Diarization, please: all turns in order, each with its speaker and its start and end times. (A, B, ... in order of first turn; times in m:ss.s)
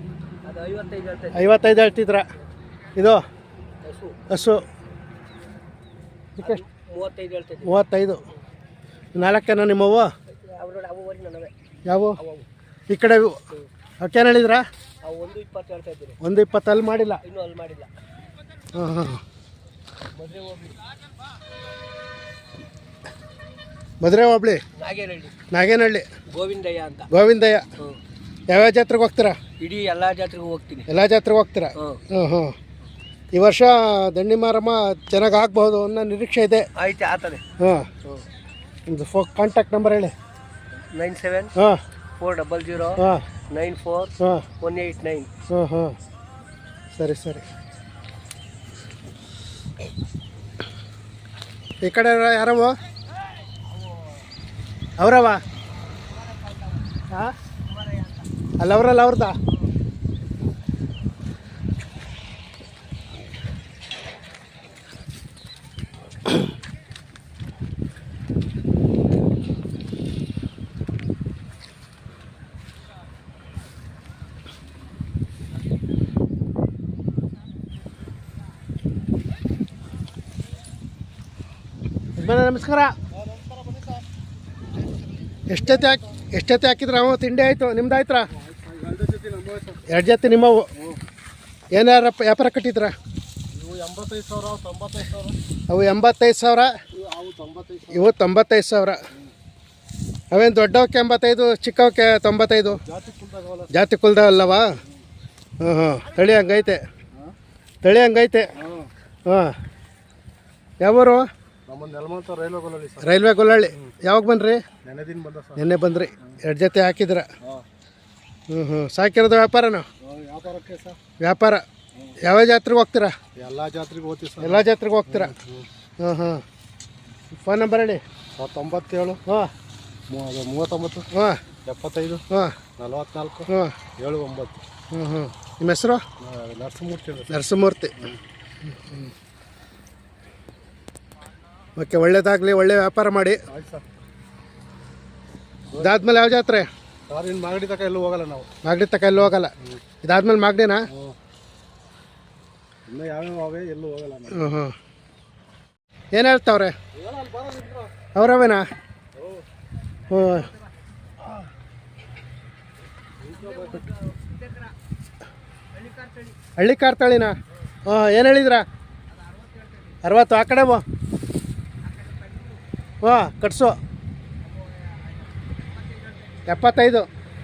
0:00.4-0:01.8 A
0:01.3-0:02.2 B
0:03.0-0:03.2 B
0:03.8-0:04.2 A
0:04.3-0:04.6 B
0:06.4-0:07.8 A
0:07.6-0:08.2 B
0:09.2-0:10.1 B
0:10.4-0:11.5 A
0:11.9-0:12.2 B
0:12.2-0:12.5 A
0:12.9-0:13.4 B
0:14.0-0:14.6 B
0:15.0-0:16.2 A
0:16.2-0:17.2 B
0:17.2-0:17.9 A
0:18.7-0:19.2 B
0:20.2-0:20.8 A
0:24.0-0:24.6 B
0:24.8-0:25.3 A
0:25.5-0:26.0 B
0:26.3-0:27.1 A
0:27.1-0:27.6 B
0:28.5-0:29.4 B
0:29.6-0:30.8 A
0:30.9-0:32.5 B
0:33.3-0:36.6 B
0:36.8-0:37.4 A
0:37.6-0:37.9 B
0:38.9-0:40.1 B
0:40.9-0:41.5 A
0:42.2-0:45.3 A
0:43.0-0:43.2 B
0:45.5-0:45.9 B
0:47.0-0:47.4 B
0:51.8-0:52.7 B
0:55.0-0:55.4 B
0:56.0-0:56.9 A
0:57.6-0:58.2 A
0:58.6-0:59.3 B
1:22.2-1:22.9 B
1:23.1-1:24.0 C
1:25.5-1:28.3 B
1:28.3-1:29.8 C
1:29.9-1:30.7 B
1:31.7-1:32.9 B
1:33.5-1:35.4 C
1:35.7-1:36.7 B
1:36.9-1:38.1 C
1:37.9-1:39.0 B
1:40.3-1:42.8 B
1:42.7-1:43.7 C
1:43.7-1:44.7 B
1:45.6-1:46.8 B
1:47.8-1:48.5 B
1:48.6-1:48.9 C
1:49.2-1:49.5 B
1:50.8-1:51.3 B
1:51.7-1:53.1 C
1:53.0-1:54.6 B
1:54.8-1:55.6 C
1:55.6-1:57.2 B
1:58.5-1:59.9 B
2:00.0-2:01.0 C
2:01.2-2:01.6 B
2:02.2-2:03.1 B
2:03.4-2:05.7 C
2:04.4-2:05.3 B
2:06.0-2:06.4 B
2:07.3-2:08.0 B
2:08.3-2:09.2 C
2:09.3-2:09.5 B
2:10.1-2:11.1 C
2:11.1-2:11.4 B
2:11.6-2:12.2 C
2:12.3-2:12.6 B
2:12.8-2:14.6 C
2:13.5-2:13.8 B
2:14.9-2:16.0 B
2:16.2-2:17.3 C
2:17.3-2:17.9 B
2:18.6-2:19.1 B
2:21.8-2:23.4 B
2:23.5-2:23.8 C
2:25.7-2:26.1 C
2:25.8-2:26.7 B
2:27.1-2:28.5 C
2:28.6-2:30.8 B
2:32.9-2:34.5 C
2:34.3-2:34.7 B
2:36.1-2:36.7 B
2:36.9-2:37.9 C
2:38.1-2:38.6 B
2:39.2-2:39.4 C
2:40.1-2:40.5 B
2:40.1-2:40.7 A
2:43.2-2:43.8 C
2:43.3-2:44.7 A
2:45.7-2:46.4 A
2:46.6-2:47.3 B
2:47.8-2:48.6 B
2:49.1-2:50.0 A
2:50.0-2:50.8 B
2:51.8-2:52.6 A
2:53.0-2:53.7 B
2:54.4-2:56.5 A
2:56.5-2:57.1 B